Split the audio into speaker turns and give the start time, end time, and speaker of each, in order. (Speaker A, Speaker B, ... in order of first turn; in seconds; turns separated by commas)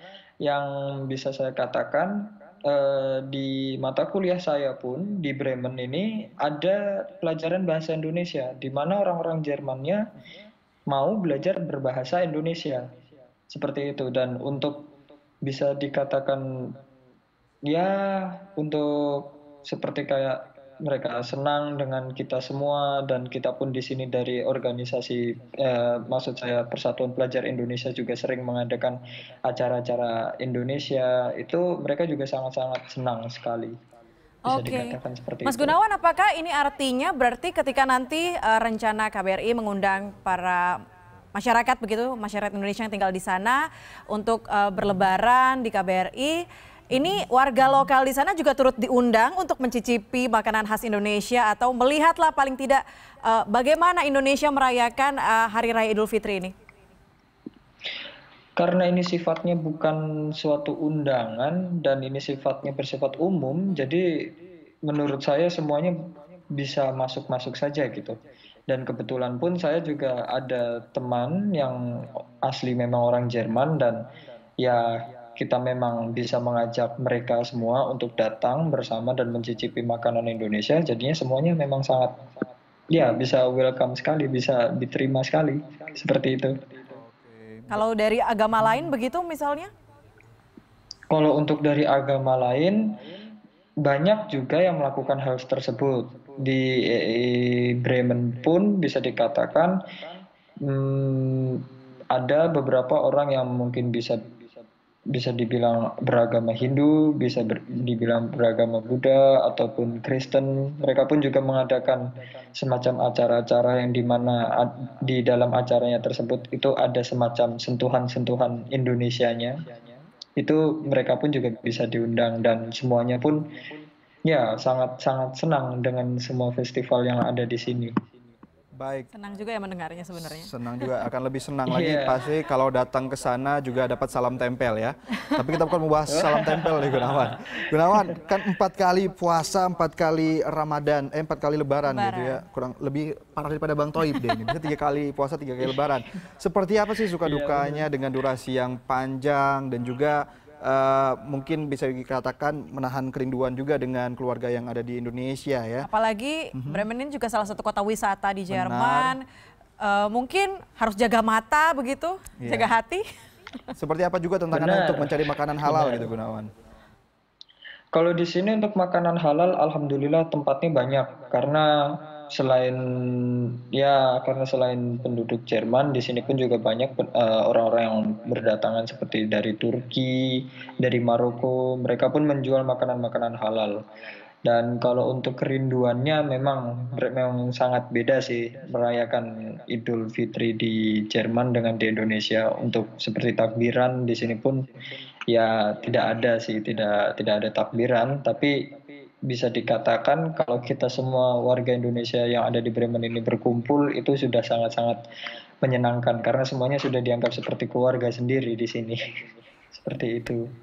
Speaker A: 0.4-10.1, Speaker A: 10.9-12.9, Speaker A: 13.5-14.9, Speaker A: 15.4-16.8, Speaker A: 17.7-33.8, Speaker B: 34.5-40.8, Speaker A: 34.5-35.8, Speaker B: 41.3-56.5, Speaker A: 58.6-64.3, Speaker A: 64.9-66.0, Speaker A: 66.5-74.1, Speaker A: 74.6-82.2, Speaker A: 82.9-86.6, Speaker C: 86.9-87.8, Speaker B: 87.7-89.7, Speaker A: 91.1-93.0, Speaker A: 93.8-99.9, Speaker A: 100.6-104.3, Speaker A: 105.1-119.7, Speaker A: 120.4-123.6, Speaker A: 124.2-128.0, Speaker C: 128.8-129.1, Speaker B: 129.1-130.8, Speaker C: 130.2-155.9, Speaker A: 131.7-132.2, Speaker A: 136.1-138.0, Speaker B: 141.9-142.4, Speaker A: 147.2-147.9, Speaker B: 155.8-159.2, Speaker C: 156.5-156.8, Speaker C: 158.5-159.2, Speaker B: 159.8-163.0, Speaker C: 162.4-162.7, Speaker C: 163.8-166.5, Speaker A: 164.5-166.1, Speaker A: 167.9-183.8, Speaker A: 184.4-194.7, Speaker A: 195.3-198.7, Speaker A: 199.3-205.0, Speaker A: 205.6-209.0, Speaker A: 209.7-210.4